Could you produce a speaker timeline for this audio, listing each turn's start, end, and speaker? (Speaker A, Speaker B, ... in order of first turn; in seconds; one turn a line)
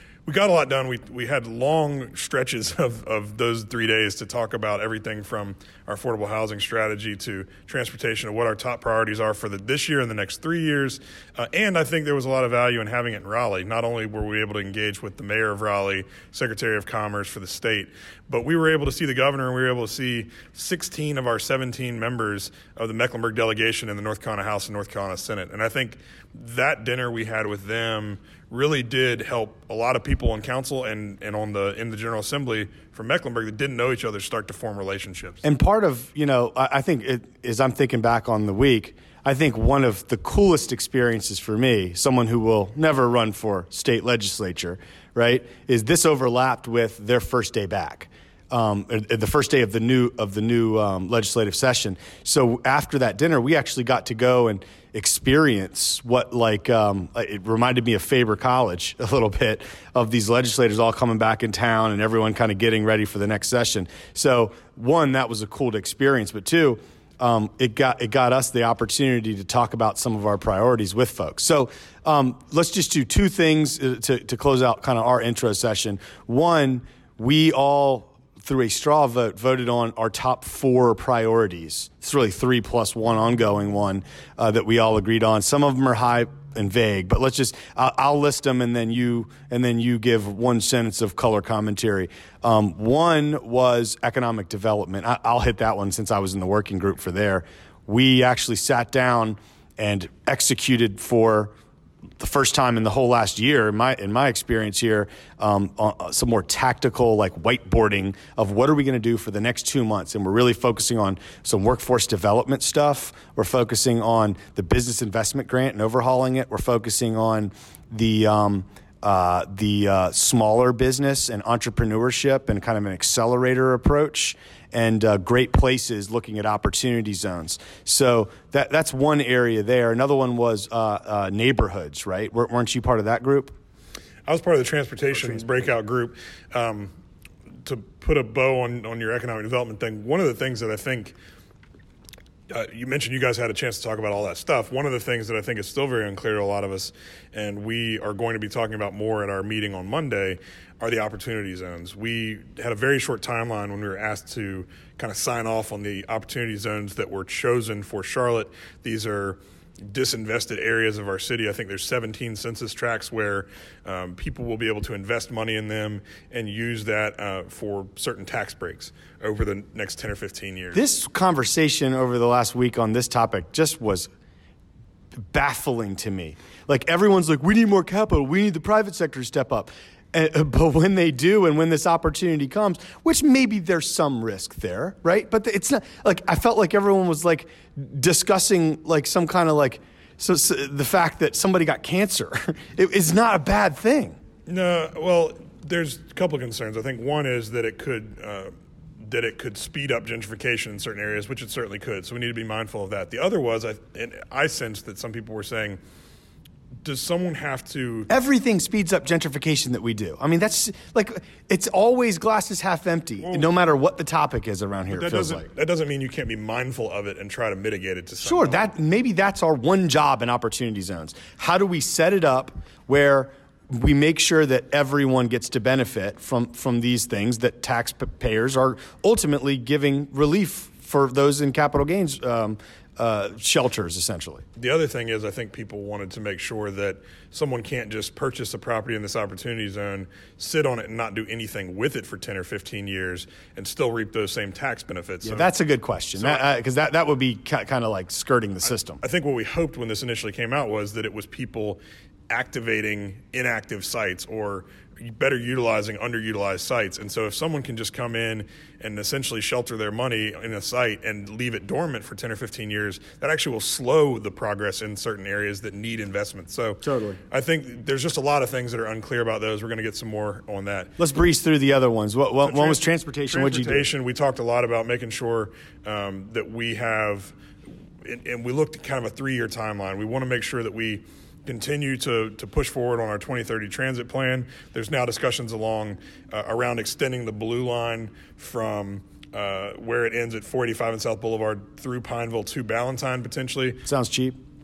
Speaker A: 0.2-35.4
Speaker B: 35.4-101.5
Speaker B: 102.2-133.5
Speaker A: 134.2-136.9
Speaker B: 135.1-135.4
Speaker A: 137.6-141.1
Speaker A: 142.5-170.8
Speaker B: 170.7-174.1
Speaker B: 175.3-194.2
Speaker A: 194.5-198.5
Speaker A: 199.0-205.8
Speaker A: 206.8-208.1
Speaker B: 208.1-215.5
Speaker A: 213.2-213.5
Speaker A: 214.9-218.7
Speaker B: 218.2-234.4
Speaker A: 234.6-245.5
Speaker B: 245.2-249.0
Speaker A: 246.2-246.4
Speaker A: 248.6-270.9
Speaker B: 266.8-267.2
Speaker B: 271.0-273.9
Speaker A: 272.4-277.3
Speaker A: 278.0-293.8
Speaker B: 293.8-294.4